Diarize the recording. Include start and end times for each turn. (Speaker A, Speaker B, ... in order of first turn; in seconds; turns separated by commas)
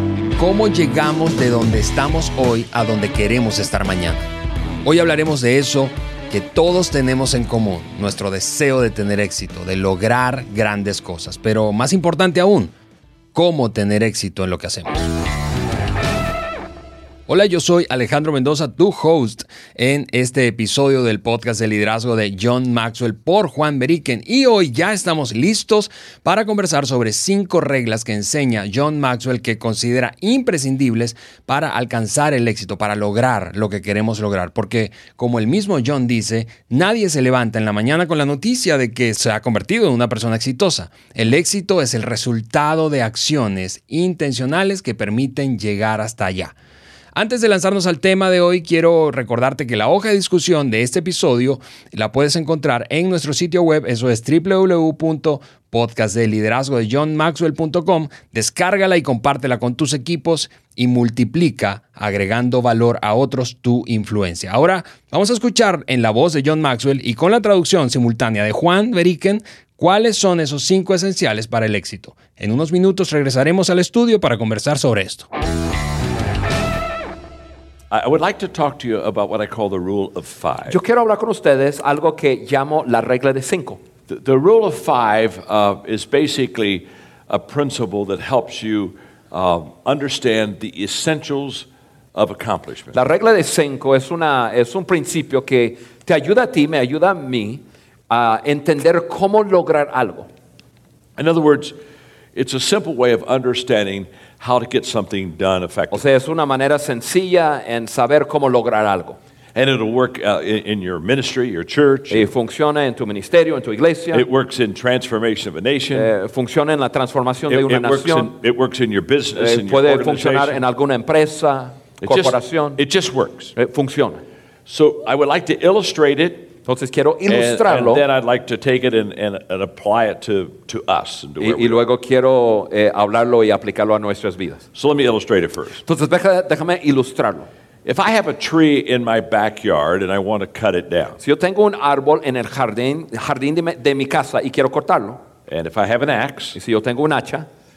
Speaker A: 0.3-4.3, Speaker A: 4.8-12.7, Speaker A: 13.3-15.1, Speaker A: 17.3-46.5, Speaker A: 47.1-75.3, Speaker B: 77.9-80.8, Speaker C: 80.7-83.8, Speaker B: 84.1-93.0, Speaker C: 92.9-100.3, Speaker B: 101.2-101.7, Speaker B: 102.3-106.0, Speaker C: 105.9-109.2, Speaker B: 109.5-112.3, Speaker C: 112.1-114.2, Speaker B: 114.1-116.1, Speaker C: 115.9-118.3, Speaker B: 117.5-120.6, Speaker C: 119.3-122.8, Speaker B: 122.0-123.5, Speaker C: 123.5-124.2, Speaker B: 124.7-126.5, Speaker C: 126.7-128.0, Speaker B: 127.3-131.8, Speaker C: 131.4-134.6, Speaker B: 134.7-135.8, Speaker C: 135.8-137.5, Speaker B: 137.8-141.2, Speaker C: 141.2-145.2, Speaker B: 145.5-146.6, Speaker C: 146.5-147.5